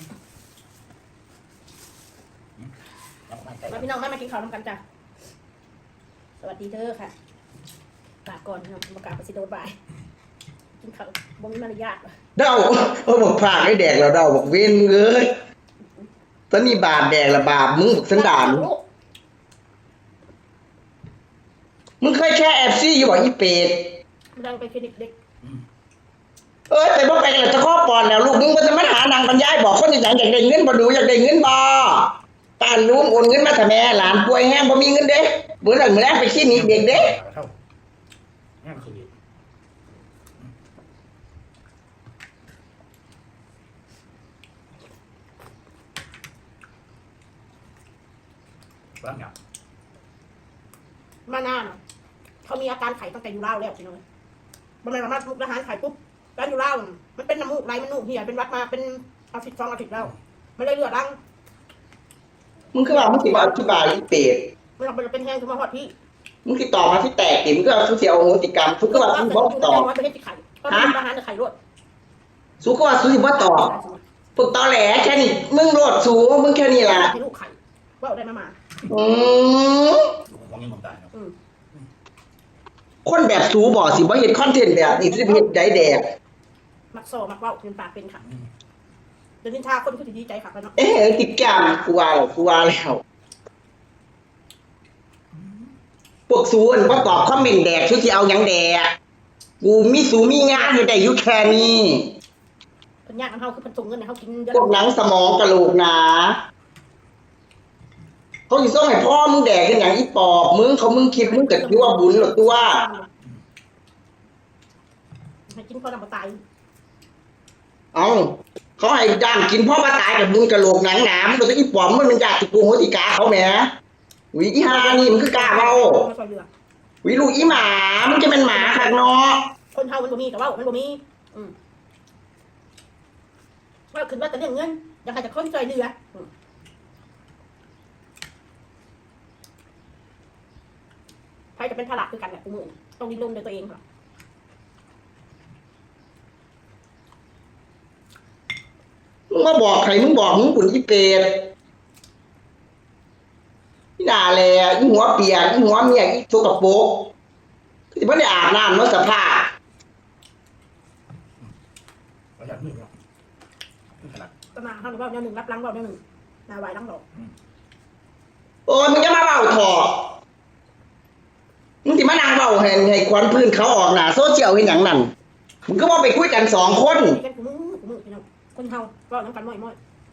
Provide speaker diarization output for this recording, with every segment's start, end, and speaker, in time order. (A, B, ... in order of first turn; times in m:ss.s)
0:03.3-0:03.8 A
0:03.7-0:04.8 B
0:06.4-0:07.1 B
0:08.2-0:09.7 B
0:10.8-0:12.1 B
0:12.4-0:15.4 C
0:16.5-0:18.7 C
0:18.0-0:18.8 B
0:22.0-0:24.0 C
0:24.3-0:25.1 B
0:26.7-0:37.1 C
0:36.5-0:37.5 A
0:38.6-0:39.1 A
0:49.0-0:49.3 A
0:51.3-0:51.8 B
0:52.4-0:54.0 B
0:54.8-1:01.2 B
1:02.7-1:04.5 C
1:02.9-1:03.9 B
1:04.8-1:05.9 B
1:06.4-1:09.9 C
1:08.9-1:11.5 B
1:10.7-1:11.0 C
1:12.6-1:13.7 C
1:13.3-1:14.0 B
1:14.4-1:17.1 C
1:16.8-1:18.6 B
1:18.9-1:20.1 C
1:20.3-1:21.1 A
1:23.0-1:26.0 C
1:24.8-1:26.0 B
1:26.9-1:28.2 B
1:29.4-1:30.8 B
1:30.8-1:33.0 C
1:36.3-1:38.9 C
1:39.6-1:42.1 C
1:40.3-1:40.9 B
1:43.0-1:44.8 B
1:44.5-1:46.4 C
1:48.5-1:52.8 C
1:51.2-1:53.1 B
1:55.5-1:56.4 B
1:57.9-2:03.7 C
2:04.3-2:06.0 C
2:04.6-2:06.5 B
2:07.0-2:09.5 C
2:08.4-2:09.0 B
2:09.7-2:11.5 B
2:13.9-2:16.3 B
2:21.6-2:23.8 B
2:29.3-2:31.5 C
2:34.0-2:37.1 C
2:37.9-2:39.5 C
2:42.4-2:42.9 A
2:44.0-2:44.3 A
2:44.5-2:47.0 B
2:48.6-2:50.1 C
2:51.8-2:55.1 C
2:55.7-2:57.2 C
2:57.1-2:59.8 B